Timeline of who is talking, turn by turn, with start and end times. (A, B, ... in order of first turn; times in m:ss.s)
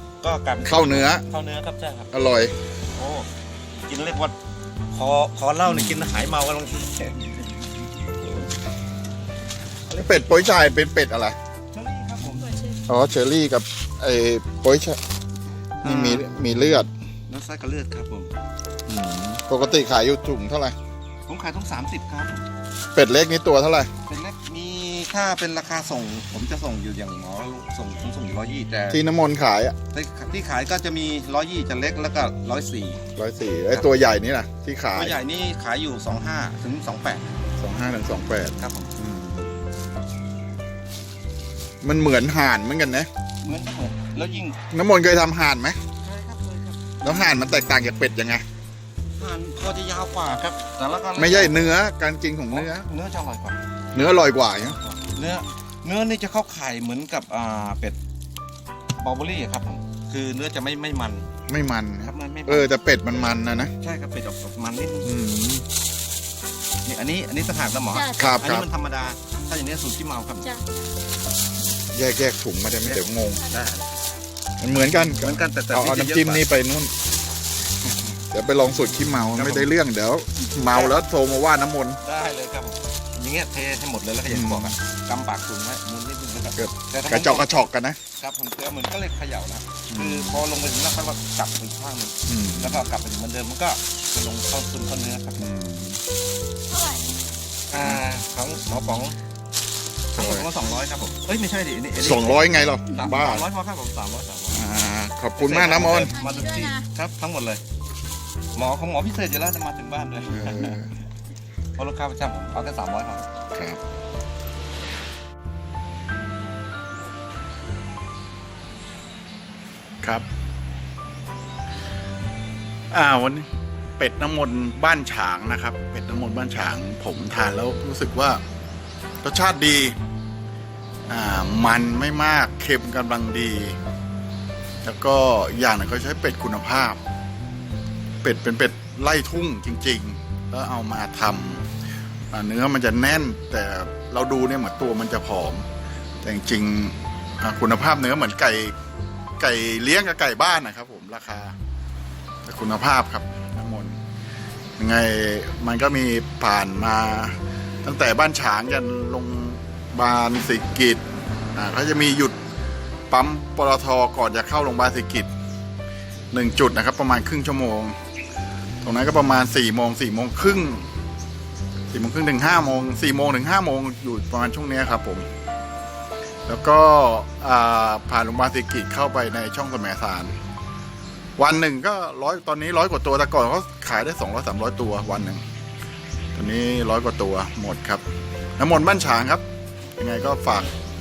0:00.2-0:02.1 A
0:00.6-0:01.2 B
0:02.1-0:02.5 B
0:02.9-0:04.3 A
0:04.9-0:07.3 A
0:05.6-0:06.2 B
0:09.9-0:10.4 A
0:09.9-0:11.4 B
0:11.7-0:12.8 A
0:12.9-0:15.0 B
0:15.8-0:16.3 A
0:15.8-0:16.9 B
0:17.3-0:18.3 A
0:18.8-0:20.8 B
0:21.3-0:22.4 A
0:22.9-0:23.9 B
0:24.1-0:29.0 A
0:28.9-0:29.8 B
0:29.9-0:33.0 A
0:33.2-0:35.2 B
0:34.9-0:37.2 A
0:37.6-0:39.5 B
0:38.6-0:38.9 A
0:41.8-0:43.1 B
0:43.4-0:44.6 A
0:44.7-0:45.8 B
0:46.0-0:47.1 A
0:47.0-0:48.4 B
0:49.2-0:51.6 A
0:51.2-0:52.9 B
0:52.5-0:53.6 A
0:53.9-0:54.8 B
0:54.6-0:58.0 A
0:59.0-1:01.3 A
1:01.5-1:03.7 B
1:02.0-1:02.7 A
1:03.8-1:05.1 A
1:05.0-1:05.6 B
1:06.8-1:10.5 A
1:07.9-1:08.3 C
1:08.2-1:08.7 B
1:10.4-1:10.8 C
1:11.9-1:13.4 B
1:12.8-1:14.0 A
1:14.6-1:16.9 B
1:15.2-1:16.4 A
1:18.0-1:22.0 B
1:19.3-1:19.7 A
1:20.6-1:21.0 A
1:22.0-1:27.5 A
1:24.3-1:24.8 B
1:26.6-1:28.0 B
1:28.2-1:35.4 A
1:29.9-1:30.3 B
1:32.3-1:32.8 B
1:35.4-1:36.0 B
1:36.7-1:37.3 C
1:37.7-1:39.2 A
1:37.7-1:38.0 B
1:40.1-1:44.6 A
1:40.2-1:40.5 B
1:42.0-1:43.4 B
1:44.5-1:46.1 B
1:45.4-1:47.6 A
1:46.0-1:46.8 C
1:48.5-1:50.8 A
1:50.3-1:50.9 B
1:51.8-1:53.3 A
1:53.5-1:53.8 B
2:02.9-2:08.4 B
2:09.2-2:10.0 B
2:11.1-2:13.8 B
2:14.8-2:17.0 B
2:18.2-2:21.6 B
2:22.3-2:25.6 B
2:26.2-2:28.7 B
2:29.4-2:31.6 B
2:32.4-2:34.0 B
2:34.8-2:41.0 B
2:41.5-2:42.4 B
2:43.1-2:45.3 B
2:46.3-2:47.9 B
2:48.8-2:50.9 B
2:51.9-2:55.2 B
2:56.5-3:00.3 B
3:01.4-3:05.4 B
3:06.3-3:08.0 B
3:08.6-3:09.4 B
3:10.0-3:10.7 B